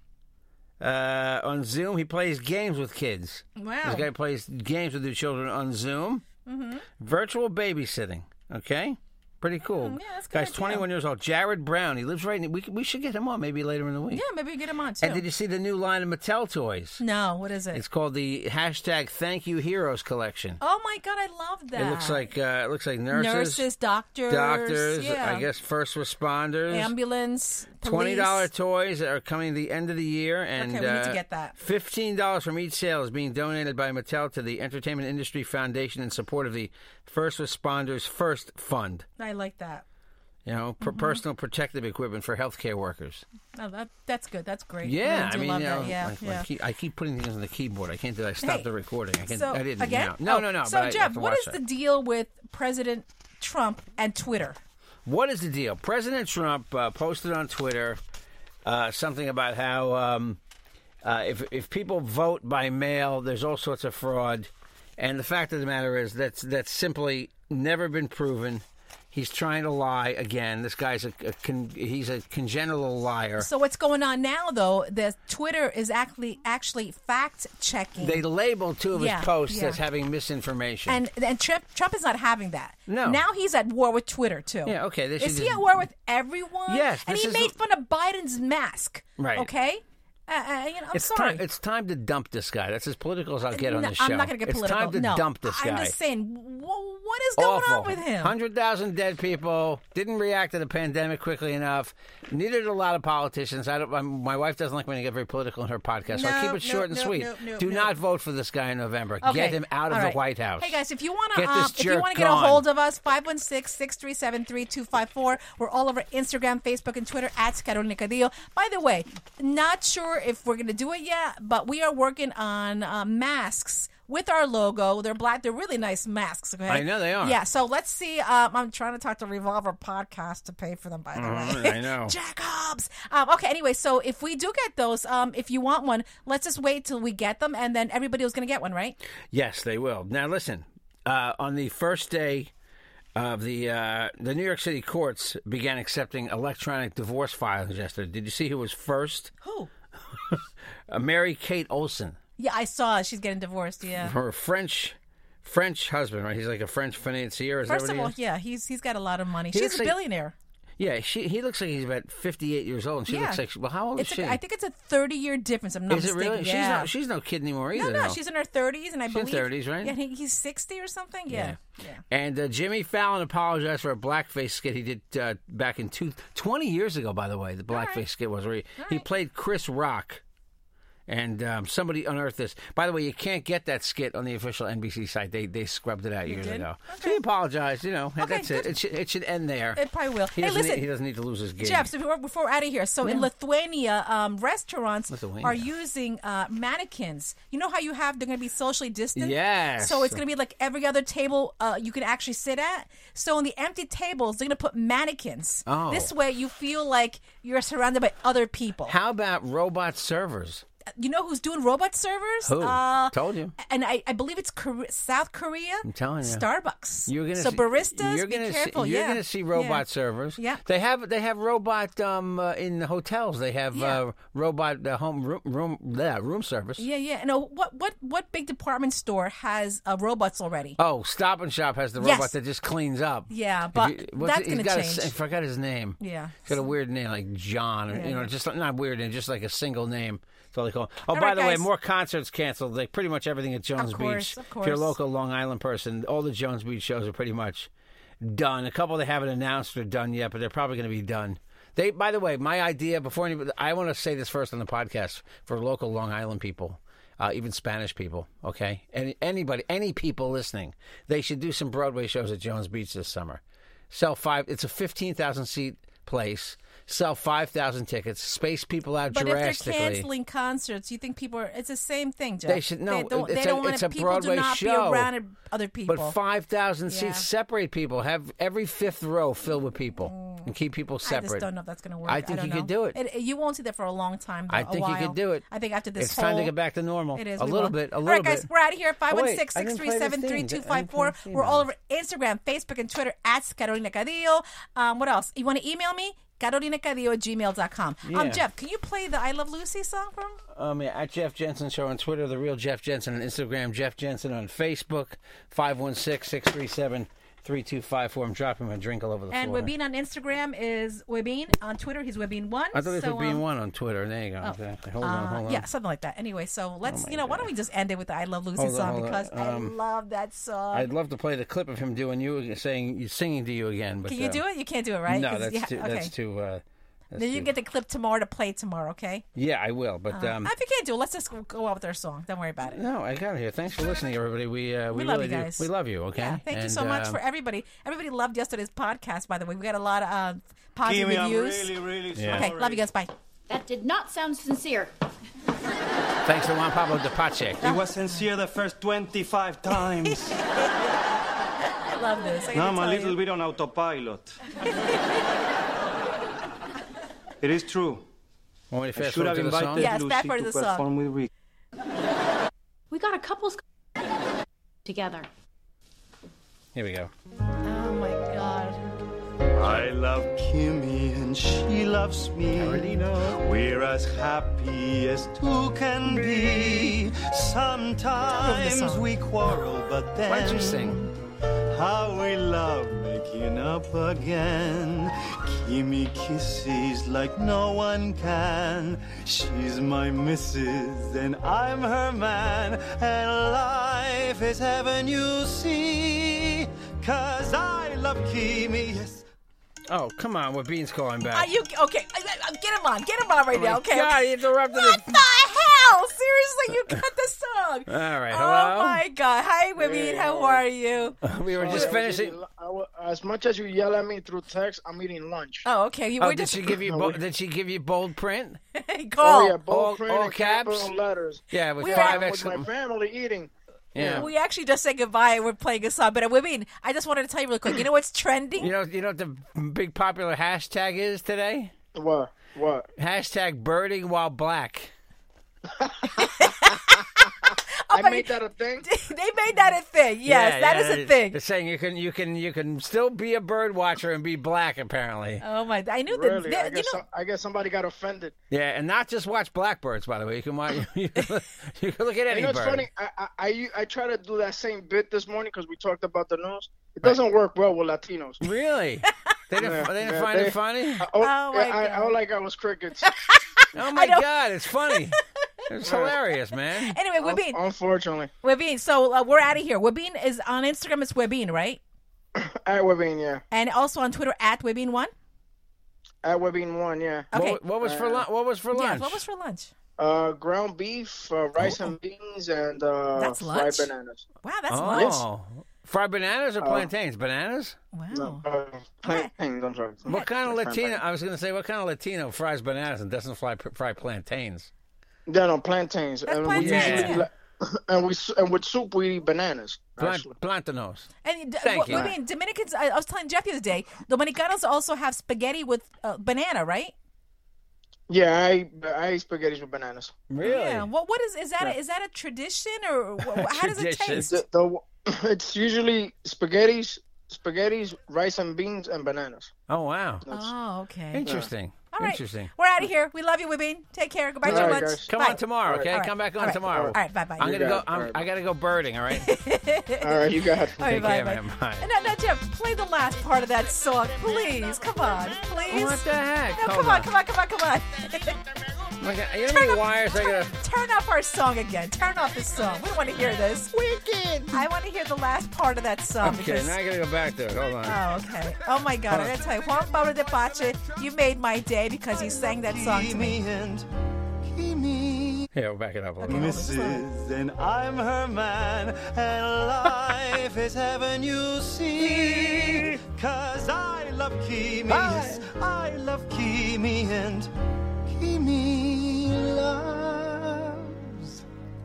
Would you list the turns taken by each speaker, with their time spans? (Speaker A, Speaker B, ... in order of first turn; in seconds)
Speaker A: 0.8-6.2, 7.0-14.2, 15.0-17.0, 17.7-20.6, 21.8-23.6, 24.3-26.9, 27.8-39.1, 40.5-43.2, 44.8-51.6, 55.0-58.0, 58.6-60.4, 61.0-73.5, 78.0-81.0, 82.9-83.2, 84.7-85.7, 86.7-87.5, 89.2-89.5, 90.9-95.9, 97.4-110.8, 111.3-112.6, 126.7-127.4, 131.2-132.2, 139.3-142.5, 143.2-149.3, 150.1-152.2, 154.0-158.2, 159.5-160.0, 160.8-164.4, 165.9-168.2, 169.1-170.0, 171.3-171.6, 172.1-180.2, 181.1-189.8, 190.4-191.9, 193.0-193.3, 195.1-195.7, 199.2-200.2, 205.7-206.1, 208.9-210.6, 212.4-213.6, 215.8-216.5, 217.1-226.9, 230.8-247.7, 248.2-270.1, 272.5-275.1, 275.9-281.5, 282.1-283.0, 284.5-285.5, 286.0-288.5, 289.1-291.7, 298.1-298.4, 300.5-309.7, 312.7-315.7, 316.9-317.5, 318.6-319.8, 320.7-324.4, 325.1-327.5, 329.4-330.5, 332.6-337.2, 342.1-342.5, 346.2-347.8, 358.7-359.9, 366.7-367.1, 372.6-373.3, 380.3-381.0, 399.9-401.5, 403.5-405.1, 407.9-409.0, 411.2-412.4, 416.2-418.6, 419.6-420.9, 421.5-422.7, 423.9-424.3, 428.6-431.7, 433.0-434.9, 440.3-445.4, 448.5-452.9, 458.4-461.1, 463.8-465.2, 465.7-467.0, 477.3-479.2, 481.6-481.9, 484.7-487.8, 490.1-494.7, 496.6-497.3, 500.0-501.1, 501.6-502.1, 510.3-510.9, 513.2-514.4, 519.7-520.3, 521.1-522.5, 524.5-529.3, 530.8-531.9, 535.7-537.1, 539.0-540.5, 543.7-544.7, 546.2-548.0, 549.1-549.4, 555.5-556.6, 562.0-562.8, 564.9-565.5
Speaker B: 3.6-4.1, 6.5-6.9, 9.6-10.9, 14.1-15.2, 17.0-17.8, 20.6-22.3, 23.1-25.5, 26.7-28.5, 30.6-31.6, 39.2-39.8, 40.8-41.2, 43.5-46.5, 48.4-48.7, 49.3-54.6, 73.4-78.2, 78.9-79.8, 80.9-91.4, 93.5-98.3, 106.1-108.0, 109.2-139.0, 149.4-149.7, 152.4-154.2, 157.7-160.3, 163.1-163.4, 164.0-166.9, 167.7-172.0, 177.7-178.0, 178.8-179.1, 186.3-187.2, 188.2-188.7, 189.8-190.8, 191.6-209.0, 211.0-219.8, 220.4-220.6, 223.7-224.0, 226.8-230.8, 232.0-232.3, 233.3-235.1, 236.0-236.7, 237.9-238.3, 241.1-241.7, 243.8-245.0, 269.1-276.2, 276.9-277.3, 280.1-280.5, 281.1-286.5, 287.1-300.4, 309.3-313.4, 314.4-320.9, 324.1-326.1, 327.2-329.2, 330.1-332.8, 334.9-341.7, 342.3-343.1, 347.6-348.2, 351.7-353.2, 359.8-360.9, 367.6-368.8, 378.3-379.1, 401.3-411.2, 415.6-416.8, 418.8-419.6, 421.8-422.2, 424.0-428.7, 436.0-441.4, 445.4-447.0, 461.2-462.2, 463.0-464.2, 466.7-467.6, 468.4-471.8, 473.5-475.1, 477.3-477.6, 478.7-479.7, 483.2-483.9, 484.4-485.2, 487.9-488.4, 489.0-489.3, 496.2-497.2, 501.2-506.9, 510.4-514.4, 520.3-521.3, 521.9-527.8, 529.1-538.4, 539.5-543.7, 544.5-546.8, 547.8-553.4, 556.2-557.1
Speaker C: 340.9-342.9, 347.6-350.4, 352.5-354.4, 357.4-358.0, 358.9-361.3, 369.6-381.1, 381.7-399.2, 552.3-553.9, 554.5-555.5, 556.2-567.5, 568.1-571.4
Speaker D: 343.5-344.9, 362.9-363.6, 364.9-365.3
Speaker E: 409.8-410.6, 411.5-415.7, 416.8-417.2, 419.2-424.2, 431.9-432.9, 435.8-437.0, 437.9-438.9, 446.1-448.4, 452.3-458.4, 459.6-463.1, 465.9-466.2, 467.2-468.3, 472.4-473.4, 476.2-478.3, 480.0-484.3, 486.6-486.9, 488.1-491.0, 495.3-500.3, 501.9-502.1, 508.1-510.1, 514.2-519.5, 520.3-520.5, 521.2-521.5, 524.4-525.1, 525.6-525.9, 526.6-528.3, 530.0-530.8